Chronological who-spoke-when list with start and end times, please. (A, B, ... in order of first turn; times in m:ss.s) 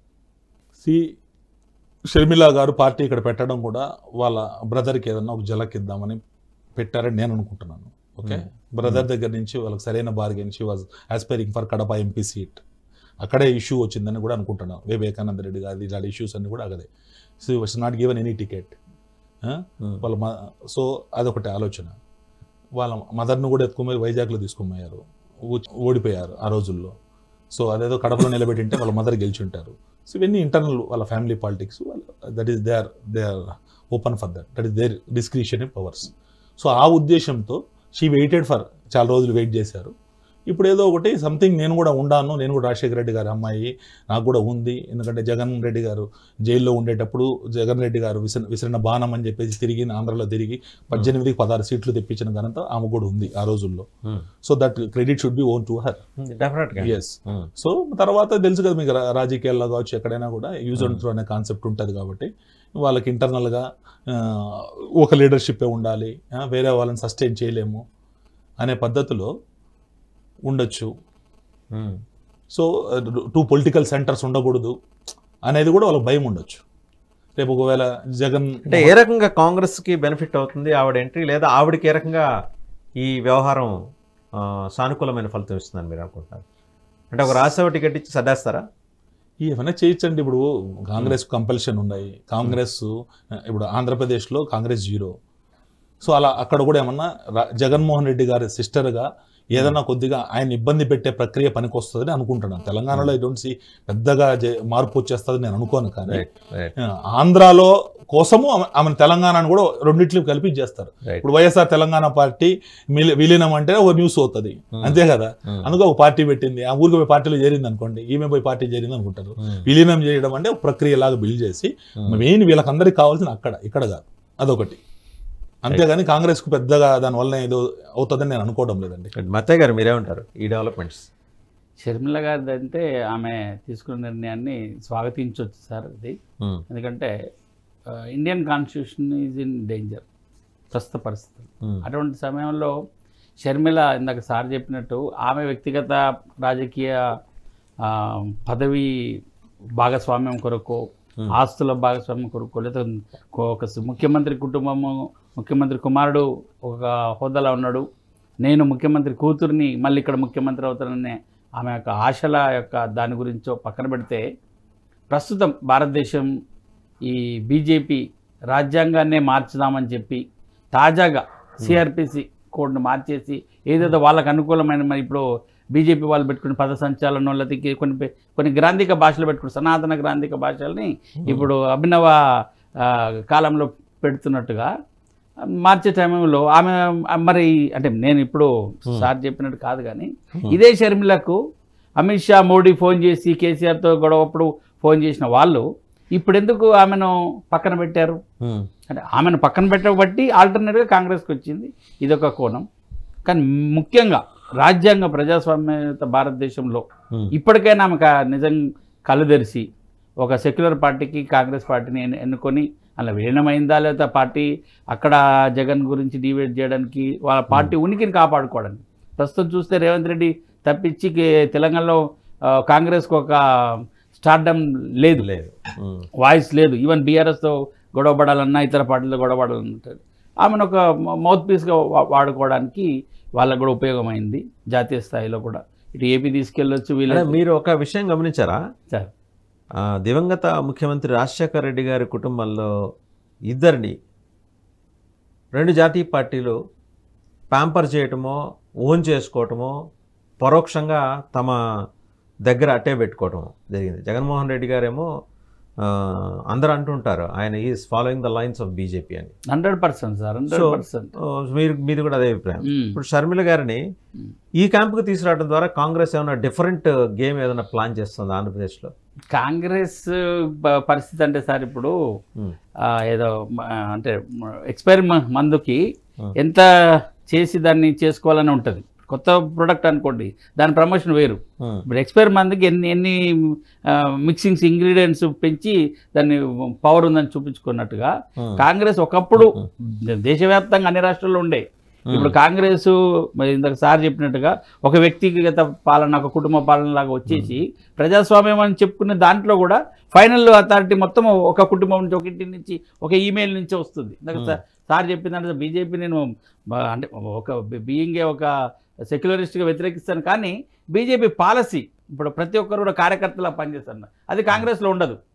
0:00.8-0:01.0 A
0:02.1-0:06.2 A
0:06.8-0:12.6 A
0:08.2-0:09.0 B
0:13.2-0:16.9 A
0:17.4-0:18.7 A
0:19.4-0:21.9 A
0:22.8-0:26.9 A
0:27.5-0:39.9 A
0:40.5-0:53.9 A
0:54.4-0:56.0 A
0:56.2-0:57.5 B
0:56.8-1:07.8 A
1:00.8-1:01.0 B
1:08.6-1:09.3 A
1:10.4-1:10.9 A
1:11.7-1:12.0 B
1:12.5-1:14.7 A
1:15.4-1:16.6 A
1:17.4-1:18.9 A
1:18.7-1:22.3 B
1:23.0-1:23.7 B
1:24.4-1:26.4 B
1:27.1-1:28.6 B
1:29.4-1:32.9 A
1:33.4-1:35.1 A
1:36.0-1:46.2 A
1:46.1-1:46.7 B
1:46.8-2:04.8 A
1:54.8-1:55.7 B
2:05.6-2:09.1 A
2:09.1-2:11.1 B
2:11.8-2:16.1 C
2:16.7-2:17.1 C
2:18.1-2:20.0 C
2:20.7-2:22.7 C
2:23.4-2:27.0 C
2:27.9-2:28.9 C
2:29.8-2:37.8 C
2:38.4-2:44.2 C
2:45.1-2:46.3 C
2:47.0-2:50.2 C
2:50.7-2:55.2 C
2:55.7-3:02.2 C
3:01.2-3:01.5 B
3:02.8-3:04.7 C
3:05.6-3:11.4 C
3:12.0-3:18.2 C
3:18.4-3:18.7 B
3:18.9-3:22.6 C
3:23.2-3:29.6 C
3:30.2-3:42.0 C
3:42.5-3:45.3 C
3:45.2-3:46.1 B
3:46.2-3:57.4 C
3:57.1-3:58.6 B
3:59.8-4:02.7 B
4:03.5-4:03.9 B
4:05.5-4:06.5 B
4:07.5-4:09.7 B
4:10.4-4:11.6 B
4:12.4-4:15.1 B
4:15.8-4:19.3 B
4:19.5-4:21.1 C
4:20.5-4:23.8 B
4:22.6-4:23.0 C
4:24.6-4:28.9 B
4:29.3-4:31.9 C
4:32.8-4:34.2 C
4:34.7-4:35.8 C
4:36.4-4:36.6 C
4:37.2-4:43.2 C
4:43.9-5:06.2 C
4:48.4-4:48.6 B
4:49.4-4:49.6 B
4:52.1-4:52.3 B
4:57.3-4:57.5 B
5:06.7-5:08.5 C
5:09.1-5:15.2 C